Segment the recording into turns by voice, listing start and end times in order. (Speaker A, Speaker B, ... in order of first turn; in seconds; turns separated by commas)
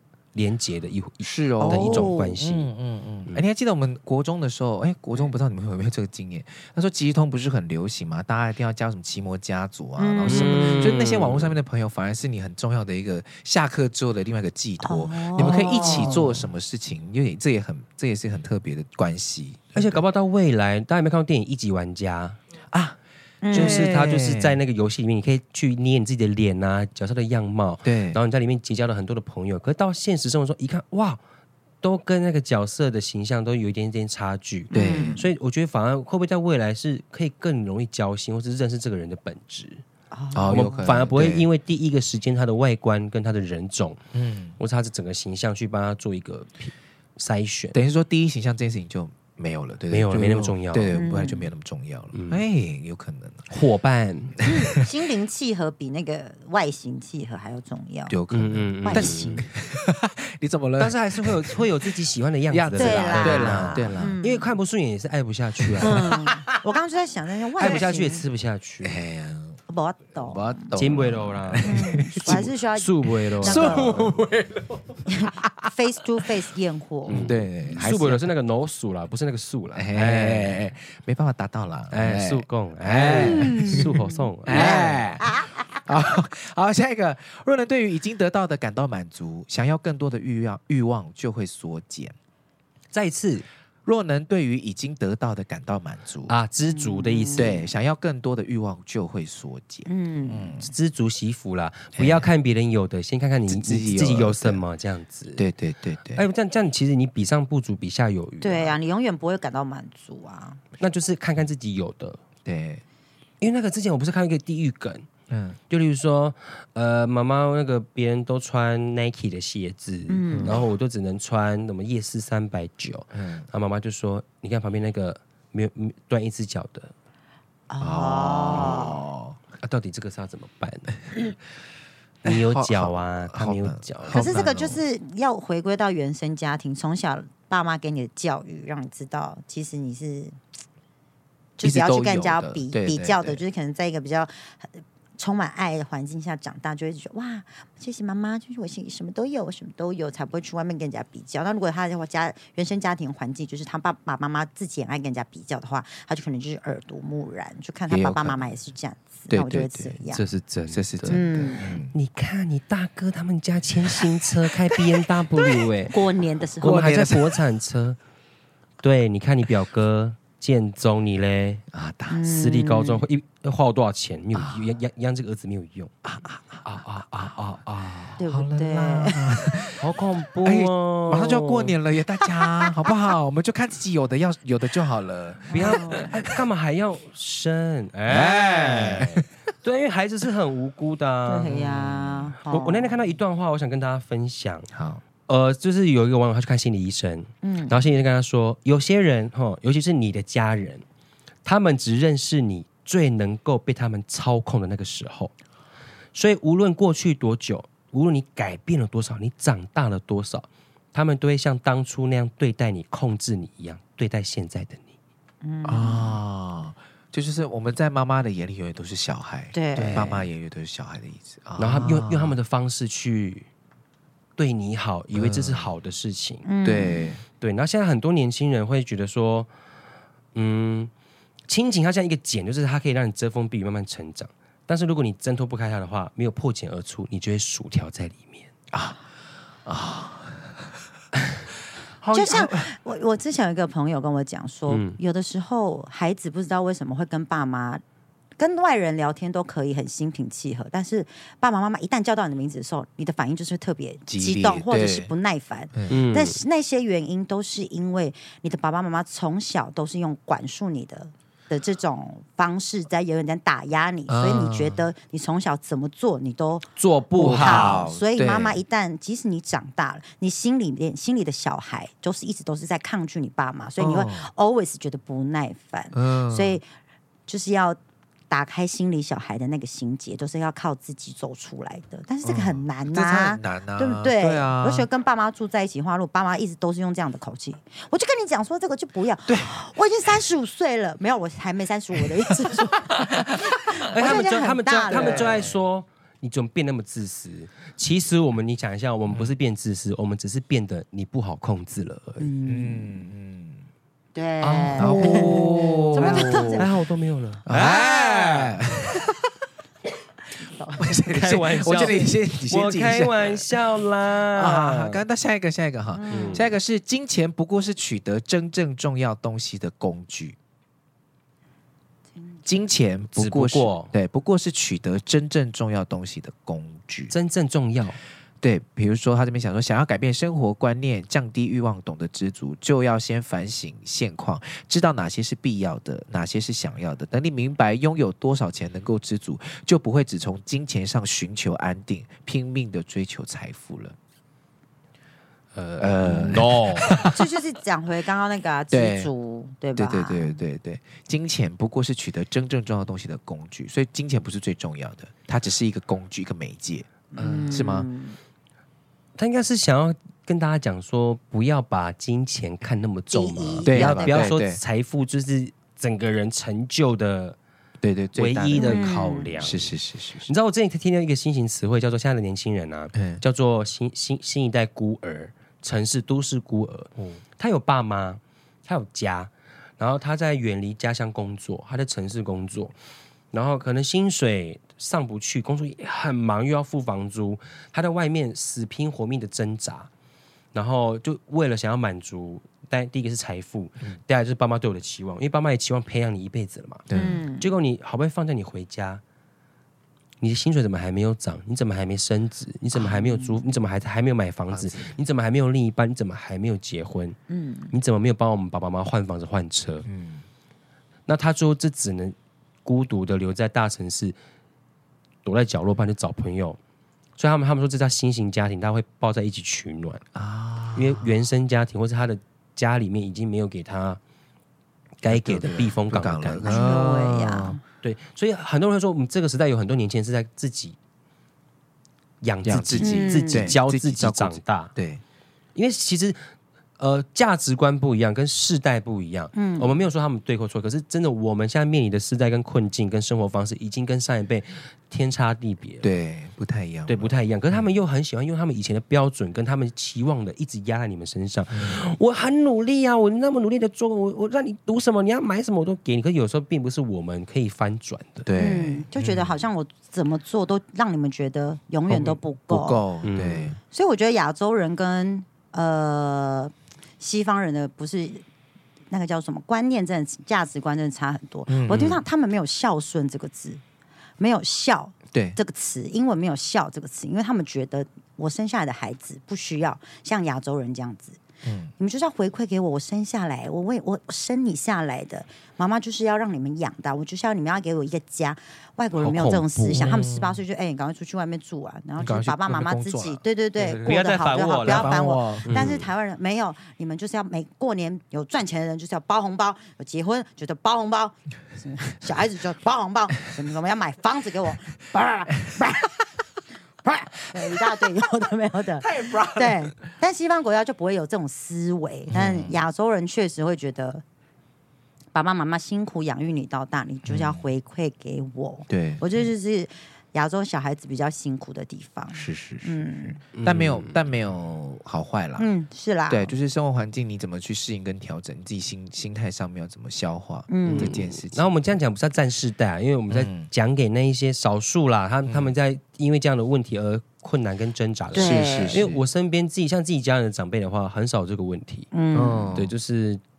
Speaker A: 0.3-2.7, Speaker B: 1.2-20.0, Speaker C: 1.6-2.4, Speaker C: 10.0-11.0, Speaker A: 10.2-11.6, Speaker C: 14.8-16.2, Speaker A: 15.4-16.2, Speaker A: 19.7-22.4, Speaker B: 22.7-23.0, Speaker C: 23.4-23.9, Speaker B: 23.5-24.6, Speaker A: 23.5-31.2, Speaker B: 27.8-28.2, Speaker A: 31.8-39.8, Speaker C: 34.7-35.3, Speaker B: 34.7-35.2, Speaker C: 40.1-40.9, Speaker B: 40.3-41.5, Speaker A: 40.5-44.0, Speaker B: 44.1-44.6, Speaker A: 44.6-47.8, Speaker B: 47.7-53.5, Speaker A: 49.9-51.0, Speaker C: 50.9-51.5, Speaker A: 52.1-52.4, Speaker A: 53.5-54.4, Speaker B: 54.4-54.9, Speaker C: 54.4-58.1, Speaker B: 58.1-61.7, Speaker A: 58.3-59.5, Speaker C: 58.9-59.5, Speaker A: 60.8-66.1, Speaker B: 62.5-64.2, Speaker C: 62.8-64.5, Speaker B: 65.6-66.4, Speaker C: 65.8-68.2, Speaker A: 67.6-69.0, Speaker B: 67.6-67.8, Speaker B: 68.8-69.6, Speaker C: 69.7-70.8, Speaker B: 70.2-72.5, Speaker A: 70.7-74.3, Speaker C: 71.6-74.0, Speaker B: 73.1-75.7, Speaker C: 75.1-77.3, Speaker A: 77.1-80.6, Speaker B: 77.1-78.3, Speaker B: 79.7-92.2, Speaker A: 81.9-85.0, Speaker C: 83.1-85.6, Speaker A: 92.9-93.5, Speaker B: 93.8-96.3, Speaker A: 96.3-97.5, Speaker C: 96.7-97.7, Speaker B: 97.4-100.7, Speaker C: 99.8-100.5, Speaker A: 100.6-105.5, Speaker B: 102.0-102.3, Speaker B: 103.5-104.6, Speaker B: 105.3-106.2, Speaker A: 106.1-108.8, Speaker C: 108.4-110.6, Speaker A: 110.8-112.2, Speaker B: 112.4-112.8, Speaker A: 113.4-115.1, Speaker B: 115.3-115.6, Speaker A: 115.7-126.9, Speaker C: 120.1-120.6, Speaker B: 120.3-120.7, Speaker B: 123.1-123.5, Speaker C: 127.7-129.0, Speaker B: 127.8-129.4, Speaker A: 129.6-131.3, Speaker A: 132.2-134.6, Speaker B: 132.2-134.8, Speaker C: 134.1-140.4, Speaker C: 141.6-160.2, Speaker B: 141.6-143.4, Speaker B: 157.9-158.5, Speaker B: 159.3-161.9, Speaker A: 160.7-161.2, Speaker C: 161.1-161.7, Speaker A: 161.9-165.9, Speaker C: 165.9-167.0, Speaker B: 166.6-167.3, Speaker A: 166.6-168.0, Speaker A: 168.8-171.6, Speaker B: 171.7-172.2, Speaker C: 172.1-173.0, Speaker A: 172.2-175.9, Speaker B: 174.3-174.7, Speaker B: 176.0-179.8, Speaker A: 176.6-178.2, Speaker C: 178.2-179.4, Speaker A: 179.8-181.8, Speaker B: 180.4-186.4, Speaker C: 185.5-186.1, Speaker A: 185.5-191.5, Speaker B: 188.1-189.2, Speaker C: 191.3-193.0, Speaker B: 191.4-192.3, Speaker A: 192.5-194.7, Speaker B: 194.7-195.0, Speaker A: 195.2-200.8, Speaker C: 197.4-197.8, Speaker A: 201.4-205.3, Speaker A: 206.1-214.9, Speaker C: 215.4-216.2, Speaker B: 215.6-222.4, Speaker C: 219.5-220.2, Speaker A: 221.6-223.5, Speaker A: 224.4-226.5, Speaker B: 225.1-225.7, Speaker C: 226.4-227.1, Speaker B: 226.6-227.2, Speaker A: 227.3-229.5, Speaker A: 230.3-230.9, Speaker A: 231.5-238.5, Speaker B: 238.7-239.0, Speaker B: 239.6-240.7, Speaker B: 242.0-242.7, Speaker C: 242.1-247.8, Speaker A: 244.7-245.0, Speaker C: 248.4-266.7, Speaker B: 254.1-255.1, Speaker B: 255.7-256.0, Speaker A: 255.9-256.4, Speaker B: 264.1-264.8, Speaker A: 266.8-267.8, Speaker B: 267.1-268.6, Speaker C: 267.2-276.6, Speaker B: 273.8-274.3, Speaker B: 275.9-276.6, Speaker C: 277.3-277.8, Speaker C: 278.3-295.4, Speaker B: 282.2-284.9, Speaker B: 289.2-289.5, Speaker B: 292.3-294.2, Speaker A: 293.8-302.3, Speaker B: 294.9-295.6, Speaker C: 302.2-303.0, Speaker B: 302.5-303.6, Speaker C: 304.1-306.7, Speaker A: 304.5-308.6, Speaker B: 304.5-306.7, Speaker B: 307.4-309.3, Speaker C: 310.4-311.0, Speaker B: 310.8-313.5, Speaker A: 311.1-315.0, Speaker B: 314.3-320.4, Speaker C: 315.9-316.5, Speaker A: 316.1-316.4, Speaker B: 322.4-327.1, Speaker A: 323.1-323.9, Speaker A: 327.1-328.0, Speaker B: 328.4-343.9, Speaker A: 345.5-346.9, Speaker B: 345.8-347.2, Speaker C: 347.0-350.4, Speaker B: 348.7-349.1, Speaker B: 349.8-357.9, Speaker C: 357.1-358.2, Speaker A: 359.2-367.4, Speaker C: 363.1-364.3, Speaker B: 363.6-364.6, Speaker B: 367.8-370.3, Speaker A: 368.1-382.7, Speaker C: 368.6-369.3, Speaker B: 372.9-373.2, Speaker A: 383.3-389.9, Speaker A: 390.5-399.0, Speaker B: 396.9-397.2, Speaker C: 396.9-397.5, Speaker A: 400.2-407.2, Speaker C: 402.8-403.5, Speaker B: 404.5-405.0, Speaker C: 407.3-407.7, Speaker A: 407.7-409.9, Speaker B: 409.8-410.2, Speaker A: 411.1-414.1, Speaker A: 415.2-416.6, Speaker A: 417.2-420.0, Speaker B: 420.1-421.1, Speaker A: 420.8-424.0, Speaker A: 425.0-426.6, Speaker B: 425.1-427.6, Speaker C: 426.5-427.6, Speaker A: 427.8-430.8, Speaker A: 432.2-434.7, Speaker B: 432.4-435.0, Speaker C: 432.8-433.5, Speaker A: 435.5-436.2, Speaker A: 436.8-445.9, Speaker C: 439.3-439.7, Speaker B: 445.8-447.6, Speaker A: 446.9-458.3, Speaker B: 451.5-451.8, Speaker B: 458.2-459.4, Speaker C: 458.3-462.9, Speaker B: 461.9-463.6, Speaker A: 463.0-463.5, Speaker C: 463.7-468.2, Speaker C: 468.9-473.6, Speaker B: 471.5-472.0, Speaker C: 474.2-481.2, Speaker B: 475.1-475.4, Speaker B: 481.4-481.7, Speaker C: 481.8-506.0, Speaker A: 488.9-489.9, Speaker B: 489.7-490.4, Speaker B: 492.0-494.0, Speaker A: 493.8-495.8, Speaker B: 494.6-495.8, Speaker C: 506.8-514.0, Speaker B: 508.8-509.7, Speaker B: 512.1-512.6, Speaker C: 515.1-523.2, Speaker B: 517.0-517.5, Speaker B: 518.7-519.2, Speaker B: 522.1-525.5, Speaker A: 523.3-524.0, Speaker C: 525.4-526.3, Speaker B: 526.1-531.5, Speaker C: 530.5-530.9, Speaker A: 530.6-541.9, Speaker B: 533.1-533.5, Speaker B: 535.3-535.5, Speaker B: 538.1-539.0, Speaker C: 538.1-538.8, Speaker C: 541.9-542.6, Speaker B: 542.1-542.7, Speaker A: 542.5-543.2